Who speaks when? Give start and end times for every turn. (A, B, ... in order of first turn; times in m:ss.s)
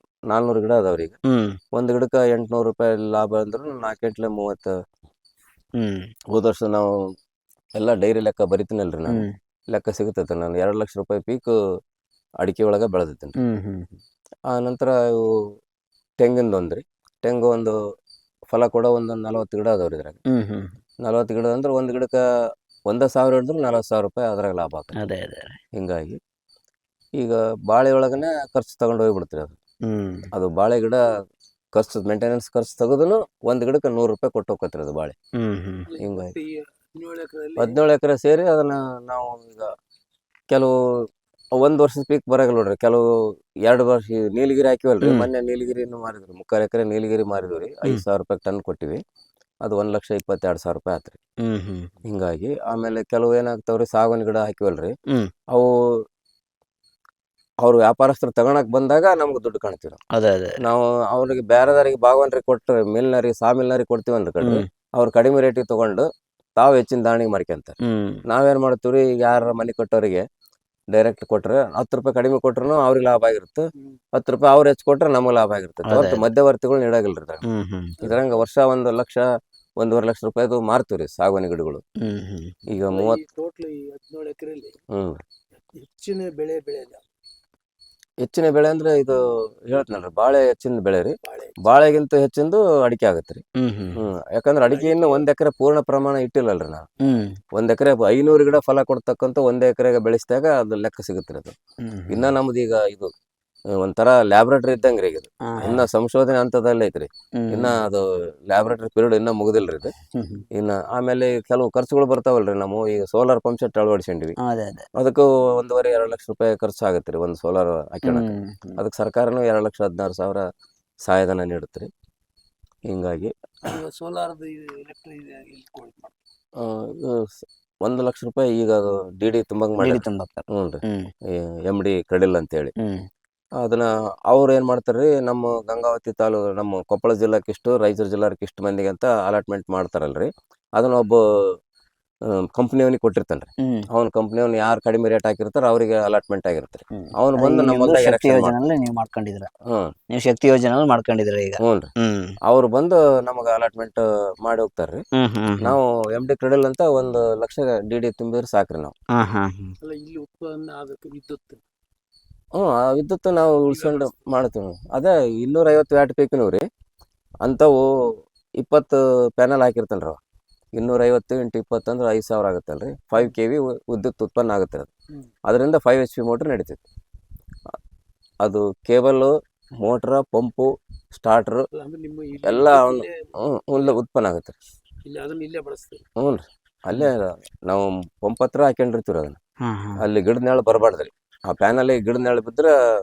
0:00.3-0:01.2 A
0:01.2-0:01.6 B
0:01.7-0:04.7 A
0:05.8-0:06.1 B
0:06.3-0:06.9 A
0:07.8-0:11.5 A
0:09.1-0:09.3 B
0:12.4-0:13.4 A
0:13.4-0:13.9 B
0:14.5-0:15.3 A
0:16.2-0:17.8 A
0:18.5-0:20.2 A
0:20.3-0:20.7 B
0:21.0-0:22.2 A
0:22.9-0:24.9 A
0:25.0-0:25.6 B
0:25.7-0:26.2 A
0:27.2-0:29.6 A
0:29.8-0:30.3 B
0:30.3-0:31.1 A
0:31.7-0:35.2 A
0:35.4-0:35.9 B
0:35.9-0:37.8 C
0:36.0-0:36.3 A
0:37.6-0:39.7 A
0:41.6-0:43.0 A
0:43.6-0:49.0 A
0:45.0-0:45.3 B
0:49.6-0:51.2 A
0:51.4-0:51.9 B
0:52.0-0:54.9 A
0:57.6-1:00.0 A
1:00.1-1:00.6 B
1:00.6-1:10.2 A
1:07.8-1:08.2 B
1:10.9-1:17.4 A
1:15.8-1:16.2 B
1:17.4-1:18.0 B
1:18.0-1:19.2 A
1:19.8-1:21.8 A
1:22.0-1:22.6 B
1:22.7-1:23.2 A
1:22.9-1:24.8 C
1:24.9-1:25.2 A
1:25.8-1:27.0 C
1:28.2-1:33.4 A
1:31.2-1:31.6 C
1:33.6-1:34.0 B
1:34.0-1:36.8 A
1:34.6-1:35.2 C
1:37.0-1:37.3 B
1:37.5-1:41.5 A
1:41.8-1:42.3 B
1:42.1-1:43.1 A
1:43.8-1:49.9 A
1:45.4-1:45.8 B
1:47.4-1:47.8 B
1:50.1-1:50.4 B
1:50.5-1:54.3 A
1:54.4-1:54.9 B
1:54.9-2:00.4 A
1:58.0-1:58.8 B
2:01.0-2:01.9 A
2:02.9-2:03.8 A
2:03.6-2:06.1 C
2:06.6-2:12.7 A
2:09.8-2:11.1 B
2:12.8-2:13.0 B
2:13.6-2:21.5 A
2:22.3-2:28.6 A
2:23.6-2:23.9 B
2:26.9-2:29.5 B
2:29.7-2:29.9 A
2:30.1-2:32.4 B
2:31.6-2:31.9 A
2:32.4-2:35.0 A
2:35.2-2:35.7 B
2:35.6-2:38.9 A
2:39.2-2:39.7 B
2:39.8-2:41.6 C
2:42.5-2:46.6 A
2:43.7-2:44.2 C
2:47.4-2:47.9 A
2:48.6-2:50.2 A
2:50.7-2:54.9 A
2:55.5-2:56.8 A
2:58.4-3:01.7 A
3:01.7-3:03.3 C
3:02.4-3:04.5 A
3:05.0-3:06.0 C
3:06.2-3:09.4 A
3:09.6-3:10.0 B
3:10.0-3:12.8 A